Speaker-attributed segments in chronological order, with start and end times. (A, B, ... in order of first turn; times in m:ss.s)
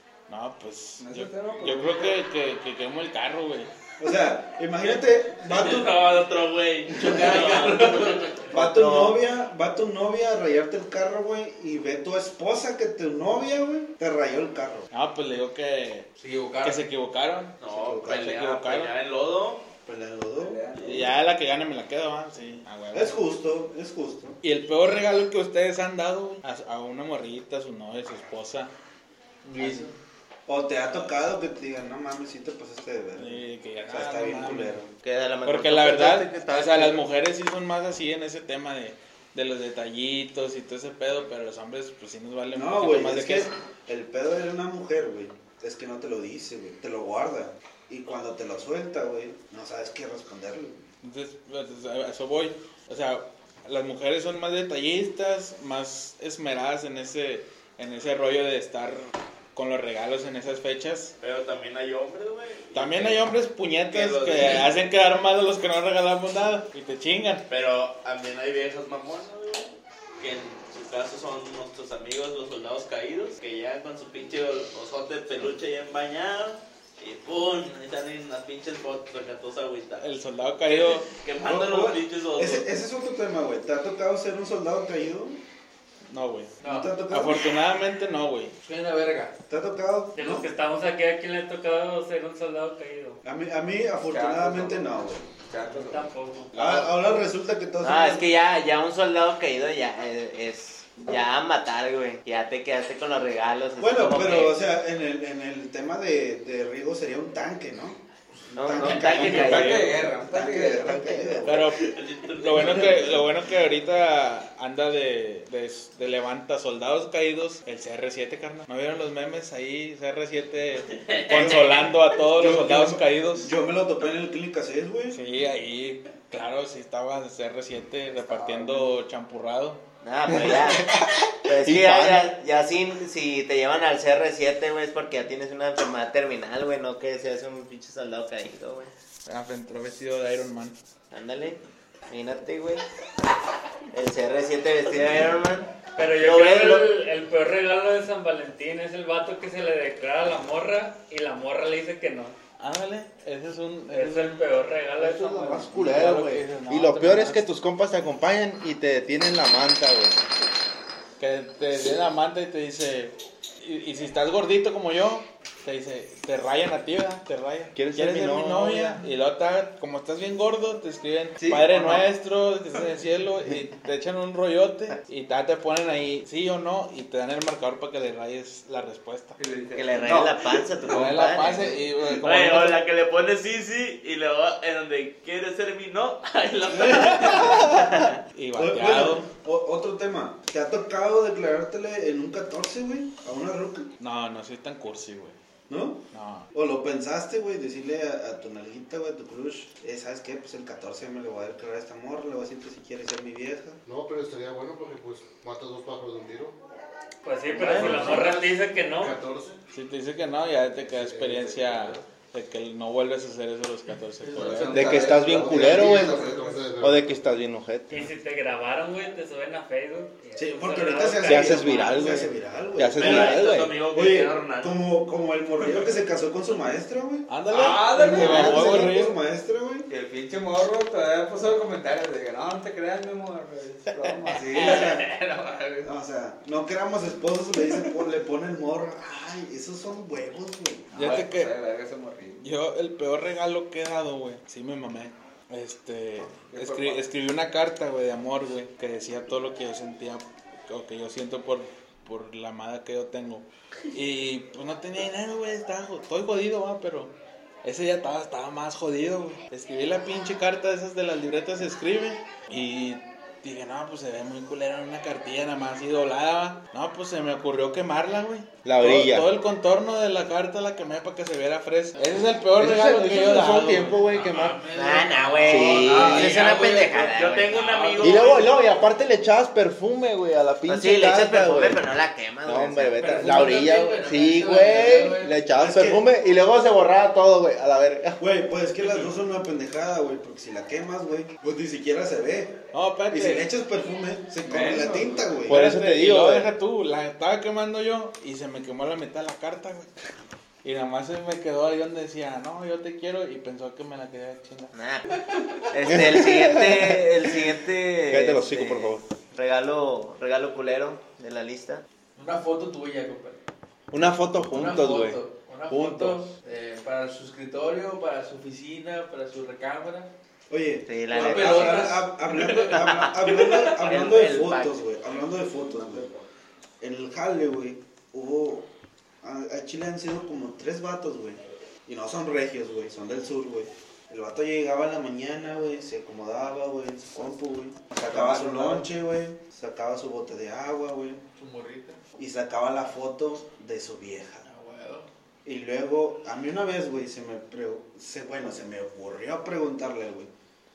0:00.3-0:03.7 A
0:01.0-0:02.2 B
0:04.0-0:06.2 C
0:05.4-0:08.6 D
0:07.0-0:07.6 C
0:07.3-0:08.1 E
0:08.5-0:14.9 C
0:08.5-0:09.2 F
0:14.9-0:16.1 A
0:16.2-0:16.8 E
0:16.6-0:19.0 A
0:17.6-0:19.7 D
0:17.6-0:18.3 C
0:19.8-0:20.7 C
0:20.4-0:21.1 B
0:20.8-0:23.2 A
0:22.9-0:24.4 C
0:24.4-0:28.7 A
0:29.4-0:29.9 E
0:30.5-0:34.9 C
0:33.2-0:34.8 A
0:35.0-0:37.0 F
0:35.4-0:43.5 A
0:42.5-0:50.8 C
0:51.0-1:01.1 A
1:01.2-1:03.4 D
1:02.7-1:07.4 A
1:03.9-1:04.8 D
1:07.5-1:20.1 D
1:20.0-1:21.1 A
1:20.6-1:22.7 D
1:21.4-1:25.4 C
1:26.1-1:26.5 A
1:26.6-1:26.9 E
1:26.6-1:27.5 C
1:27.1-1:28.5 A
1:28.6-1:29.3 E
1:29.5-1:30.5 C
1:30.2-1:33.2 G
1:33.2-1:35.2 C
1:34.1-1:36.1 B
1:35.7-1:36.7 G
1:36.5-1:38.3 C
1:37.8-1:44.6 F
1:43.8-1:48.0 C
1:48.5-1:51.8 C
1:48.6-1:50.0 F
1:49.0-1:51.3 B
1:49.1-1:49.8 A
1:51.4-2:03.5 A
1:51.8-1:53.3 D
2:00.9-2:01.9 D
2:01.3-2:05.2 C
2:05.1-2:09.8 A
2:08.3-2:08.9 C
2:10.0-2:10.9 F
2:11.5-2:12.2 H
2:11.5-2:18.9 F
2:19.3-2:20.8 A
2:21.1-2:22.8 F
2:23.9-2:26.9 F
2:26.0-2:32.4 G
2:32.6-2:34.5 A
2:33.9-2:35.8 G
2:35.0-2:40.2 H
2:35.7-2:37.4 A
2:41.2-2:59.4 A
2:47.8-2:49.0 H
2:51.4-2:52.0 B
2:59.4-3:00.3 B
2:59.8-3:01.7 F
3:00.9-3:02.8 A
3:02.2-3:07.9 D
3:06.8-3:07.9 C
3:08.3-3:09.3 A
3:08.6-3:13.9 C
3:14.0-3:15.4 A
3:15.7-3:23.8 C
3:16.1-3:16.5 A
3:23.9-3:26.6 I
3:27.2-3:29.2 G
3:27.6-3:29.6 I
3:27.7-3:28.2 H
3:29.7-3:35.0 A
3:31.2-3:31.9 I
3:34.3-3:36.7 B
3:34.7-3:38.1 H
3:34.8-3:37.0 I
3:37.9-3:42.0 G
3:40.4-3:47.3 C
3:41.2-3:43.8 H
3:43.0-3:44.8 D
3:47.3-3:49.2 A
3:47.5-3:48.9 B
3:47.9-3:49.9 C
3:49.9-3:55.9 B
3:54.3-3:55.1 C
3:55.8-4:00.9 C
4:00.9-4:02.4 B
4:00.9-4:01.5 A
4:02.4-4:17.1 A
4:06.4-4:07.0 B
4:17.6-4:34.0 A
4:28.6-4:29.3 H
4:32.6-4:34.6 H
4:34.0-4:38.4 E
4:34.7-4:37.6 F
4:35.4-4:36.4 H
4:35.9-4:38.6 D
4:38.0-4:41.8 H
4:40.7-4:43.3 F
4:42.4-4:48.2 H
4:43.0-4:45.3 E
4:45.6-4:46.0 C
4:48.2-4:52.6 C
4:52.7-4:53.5 A
4:53.1-4:55.6 C
4:54.5-4:55.3 B
4:55.5-4:59.9 A
4:55.5-4:56.5 H
5:00.6-5:04.7 A
5:04.7-5:05.1 F
5:05.7-5:11.8 F
5:05.9-5:06.9 H
5:08.1-5:09.0 H
5:12.2-5:13.4 E
5:13.9-5:16.3 H
5:14.5-5:20.1 E
5:20.5-5:26.1 C
5:20.9-5:21.9 F
5:21.1-5:22.1 E
5:22.3-5:22.6 D
5:22.7-5:24.8 F
5:23.3-5:23.6 D
5:26.8-5:28.7 C
5:29.2-5:41.2 C
5:38.1-5:38.8 E
5:41.4-5:42.0 E
5:42.2-5:44.5 C
5:44.5-5:45.1 E
5:45.4-5:50.3 C